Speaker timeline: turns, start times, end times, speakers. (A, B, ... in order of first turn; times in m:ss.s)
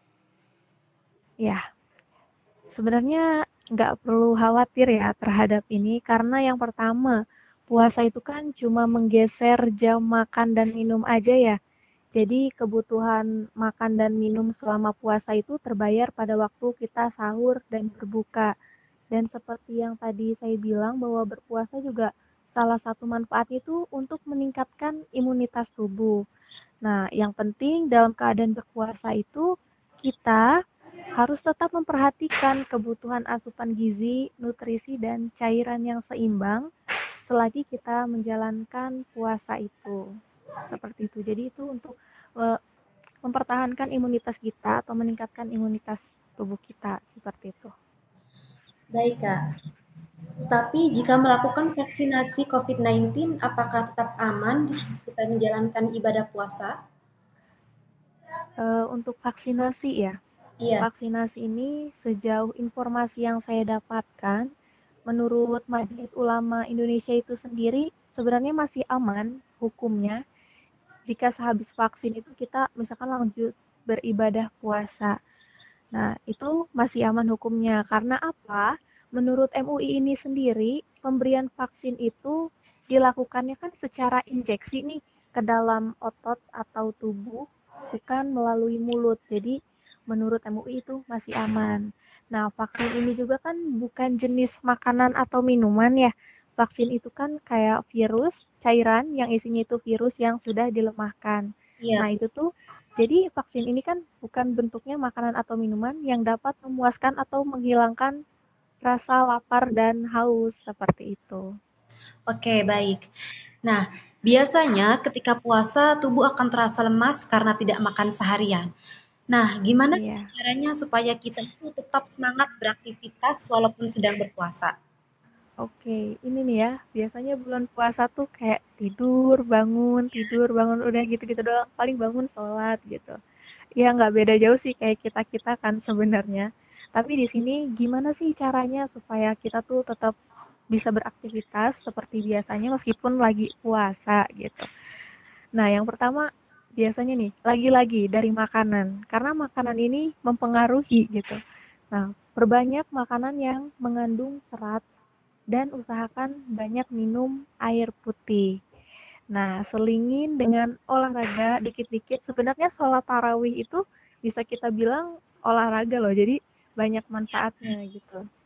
0:02.7-0:03.2 A
0:03.8-0:07.2 A
0:07.7-0:11.6 A
0:12.2-0:18.5 A
0:19.1-0:26.2 A
0:26.8-0:29.5 A
0:30.0-0:30.5 A
0:31.2-0:36.6 A
0:37.3-0:40.0 A
0:40.7-0:42.6 A
0:43.3-0:47.7 A
0:49.0-0:49.4 B
0:50.5-0:56.7 B
0:58.6-1:00.2 A
1:00.6-1:00.9 B
1:00.8-1:04.5 A
1:05.1-1:10.2 A
1:11.1-1:15.2 A
1:16.0-1:18.7 A
1:19.2-1:22.3 A
1:22.9-1:27.4 A
1:27.9-1:29.6 A
1:30.1-1:41.5 A
1:42.0-1:42.4 A
1:43.0-1:48.1 A
1:48.8-1:51.4 A
1:52.3-1:53.0 B
1:53.7-1:58.7 B
1:59.3-2:04.7 B
1:59.9-2:00.3 A
2:05.6-2:13.2 A
2:13.8-2:20.1 A
2:20.7-2:24.7 A
2:25.6-2:26.3 A
2:26.8-2:31.4 A
2:31.9-2:34.8 A
2:35.5-2:38.5 A
2:39.3-2:48.2 A